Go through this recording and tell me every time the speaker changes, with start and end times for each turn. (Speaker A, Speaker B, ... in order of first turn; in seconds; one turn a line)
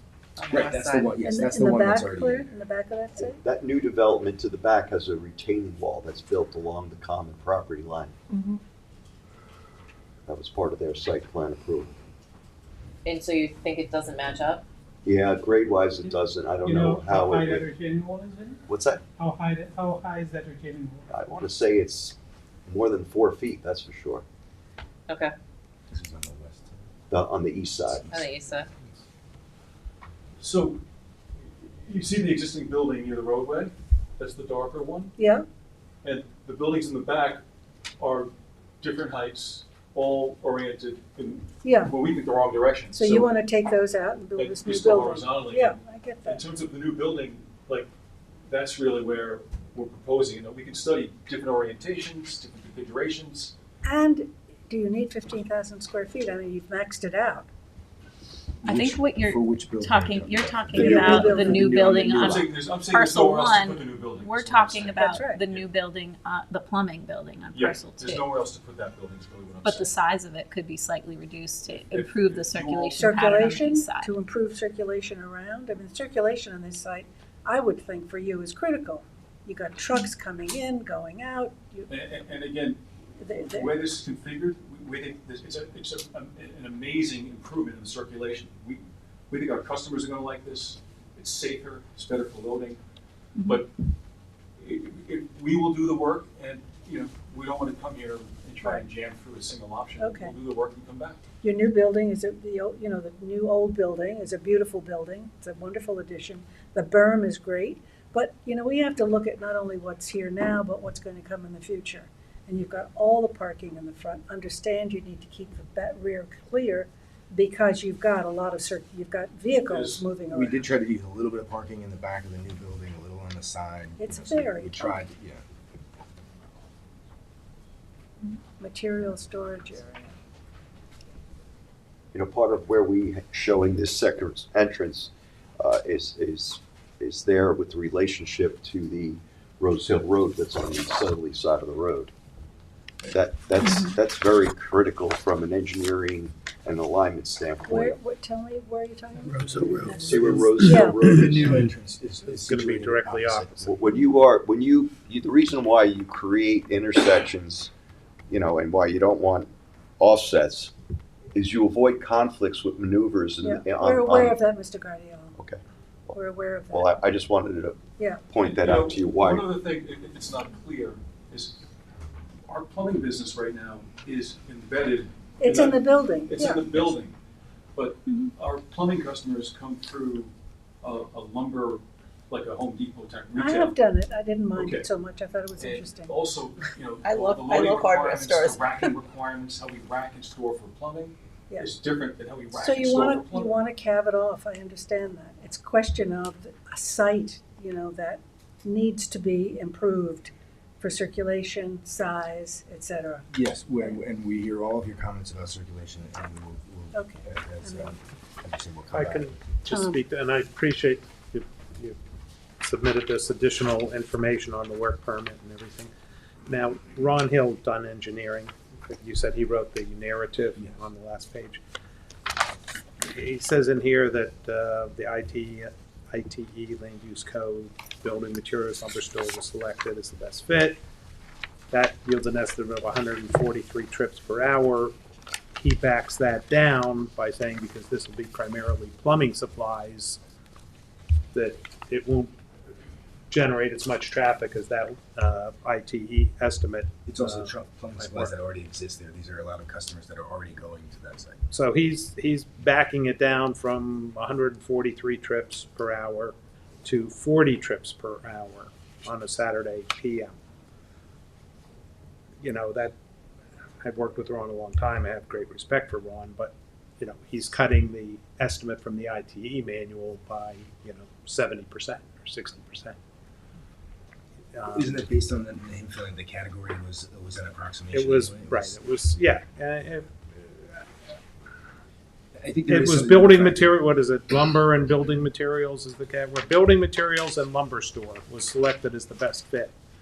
Speaker A: 0.4-1.1
Speaker B: 0.5-2.5
Speaker C: 1.2-3.4
Speaker D: 3.2-8.2
Speaker D: 10.3-11.9
Speaker A: 13.1-14.6
Speaker D: 15.0-17.7
Speaker E: 16.6-18.6
Speaker F: 17.6-18.3
Speaker D: 18.7-19.0
Speaker E: 19.2-21.1
Speaker F: 19.2-20.6
Speaker D: 21.1-24.2
Speaker A: 25.1-25.4
Speaker B: 25.9-26.9
Speaker D: 27.1-28.0
Speaker A: 27.9-28.7
Speaker B: 27.9-28.3
Speaker G: 30.4-30.8
Speaker G: 31.6-35.2
Speaker C: 35.2-35.5
Speaker G: 36.0-37.4
Speaker G: 38.0-43.3
Speaker C: 41.6-42.0
Speaker C: 42.9-46.4
Speaker G: 44.4-47.9
Speaker G: 48.5-53.5
Speaker C: 53.8-57.5
Speaker B: 58.6-62.4
Speaker H: 58.6-68.2
Speaker C: 60.7-61.9
Speaker G: 62.0-65.7
Speaker C: 64.9-65.4
Speaker G: 67.5-69.9
Speaker H: 69.6-74.1
Speaker G: 71.9-73.3
Speaker C: 73.0-81.9
Speaker G: 81.9-82.8
Speaker C: 83.2-83.8
Speaker G: 83.4-92.8
Speaker G: 93.4-93.7
Speaker G: 94.6-101.2
Speaker C: 100.0-100.3
Speaker C: 101.4-120.7
Speaker G: 119.7-120.1
Speaker B: 120.3-125.4
Speaker C: 124.0-125.0
Speaker C: 128.3-130.1
Speaker D: 132.1-142.1
Speaker D: 143.1-147.9
Speaker C: 147.7-151.1
Speaker E: 149.4-150.0
Speaker D: 150.0-151.7
Speaker B: 151.1-153.7
Speaker F: 152.2-153.7
Speaker D: 153.6-157.7
Speaker D: 158.3-160.7
Speaker D: 161.3-164.4
Speaker C: 163.4-165.4
Speaker D: 165.4-166.2
Speaker C: 166.1-167.0
Speaker D: 166.7-169.5
Speaker C: 168.0-168.2
Speaker G: 168.4-171.6
Speaker G: 172.5-177.1
Speaker C: 175.4-176.8
Speaker G: 177.8-180.3
Speaker G: 180.8-183.8
Speaker C: 183.3-186.2
Speaker G: 184.5-184.9
Speaker G: 185.6-193.6
Speaker A: 187.0-188.9
Speaker C: 192.5-203.3
Speaker B: 203.3-209.5
Speaker C: 206.9-207.9
Speaker F: 208.9-212.0
Speaker F: 212.6-215.9
Speaker F: 216.5-221.6
Speaker F: 223.0-230.8
Speaker F: 231.7-234.9
Speaker F: 235.6-240.2
Speaker F: 241.3-242.3
Speaker F: 243.3-248.3
Speaker B: 247.1-251.4
Speaker F: 251.5-260.3
Speaker F: 262.4-262.9
Speaker F: 263.8-272.9
Speaker F: 274.5-275.0
Speaker B: 274.7-278.8
Speaker F: 277.9-280.9
Speaker B: 282.4-283.7
Speaker F: 282.7-289.7